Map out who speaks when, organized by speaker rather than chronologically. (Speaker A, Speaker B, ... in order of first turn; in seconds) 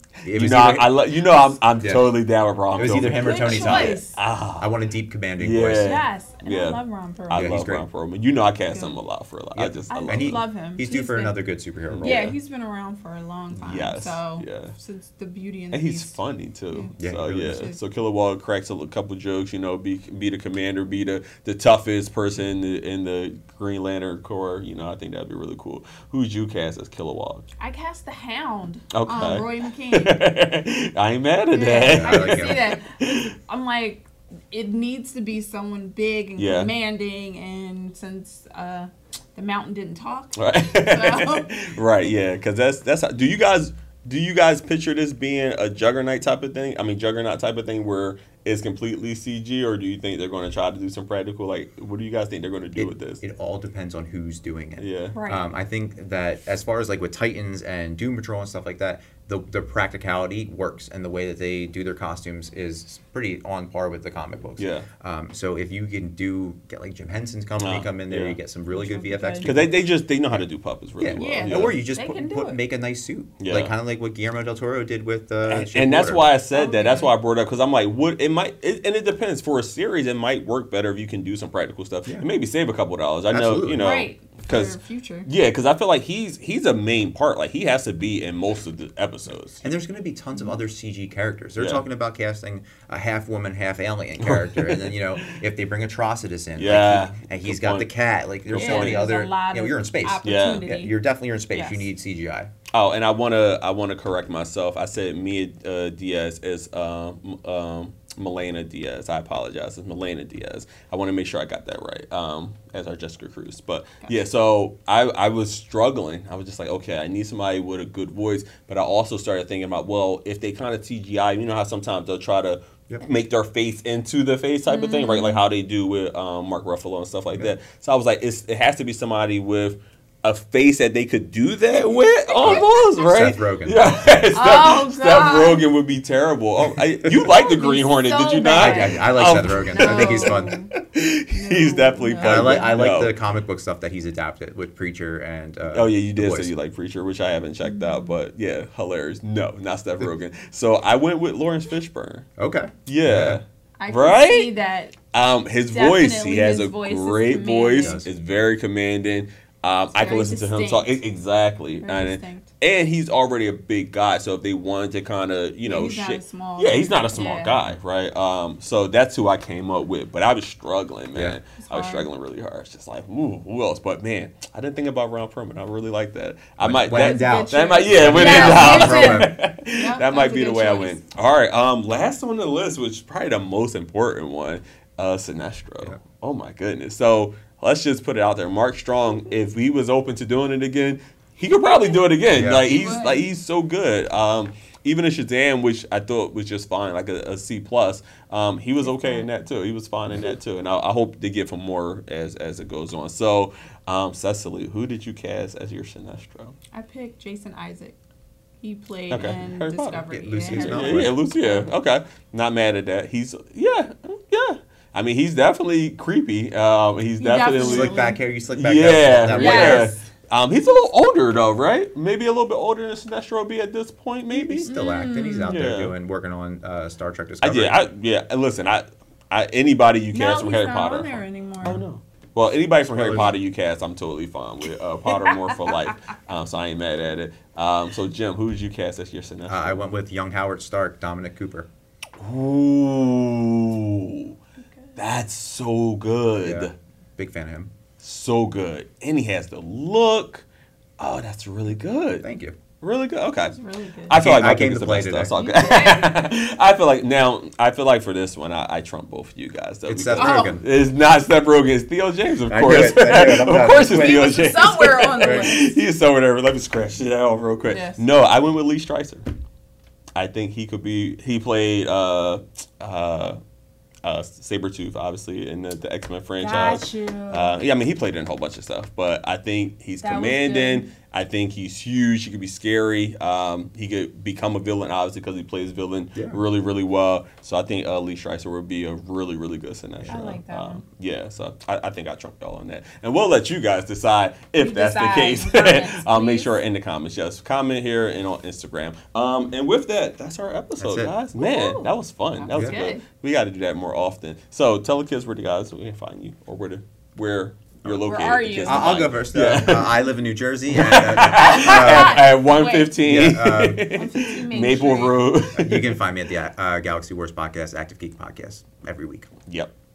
Speaker A: 0.2-2.1, 2.7-4.0, 4.6-6.0, 7.3-7.9, 9.5-12.3, 17.0-17.6, 31.9-32.6, 52.8-69.7, 71.0-76.3, 83.3-84.0, 89.6-102.5, 132.4-133.9, 136.6-137.3, 138.5-140.6, 142.2-146.5, 152.4-153.4, 157.8-158.1, 176.6-179.3, 192.3-192.6, 210.1-211.2, 217.6-219.9, 224.3-227.8, 232.9-233.4, 239.5-241.7, 246.4-247.7, 252.2-252.6, 254.1-255.3, 259.9-260.6, 262.4-265.5, 290.0-290.3, 300.8-301.1, 302.5-302.8, 307.8-312.3, 313.0-313.9, 315.6-319.3
Speaker B: 0.2-4.7, 5.4-10.4, 11.9-12.3, 13.6-14.7, 15.7-27.4, 28.9-33.3, 36.4-36.7, 40.4-53.2, 54.8-55.2, 64.6-64.8, 67.6-68.4, 69.4-71.8, 73.4-73.7, 75.5-89.6, 94.2-95.4, 96.6-97.9, 98.5-99.0, 100.2-100.7, 102.7-143.1, 145.7-152.2, 152.8-154.5, 155.1-206.6, 209.1-218.0, 218.5-224.7, 225.5-225.9, 227.4-239.8, 242.2-244.4, 244.9-246.7, 248.0-250.4, 251.0-252.2, 252.8-253.5, 254.1-269.2, 270.1-273.4, 274.0-310.0, 310.7-316.0, 319.5-319.7
Speaker C: 2.8-4.2, 5.8-7.6, 8.7-9.0, 9.9-11.4, 12.0-16.2, 16.7-17.8, 27.6-30.2, 31.5-41.8, 55.1-55.5, 68.7-69.5, 71.1-72.6, 76.5-77.1, 83.8-85.3, 98.5-100.9, 101.5-101.8, 124.7-125.4, 132.3-132.7, 134.3-135.7, 137.2-140.7, 141.3-142.9, 147.6-148.2, 153.8-155.0, 155.7-158.0, 159.9-161.0, 161.8-162.5, 165.6-167.6, 171.6-172.1, 176.9-181.0, 191.6-192.0, 192.6-193.3, 198.8-199.2, 206.7-208.0, 208.6-211.7, 217.2-218.2, 219.3-220.0, 224.7-225.6, 230.1-231.8, 235.1-235.9, 244.6-244.9, 253.4-254.2, 255.3-256.2, 260.1-260.6, 263.6-265.8, 267.6-268.0, 276.4-277.6, 280.0-280.9, 290.1-290.8, 294.6-296.6, 301.4-303.0, 308.0-309.2, 311.2-313.0, 313.9-315.3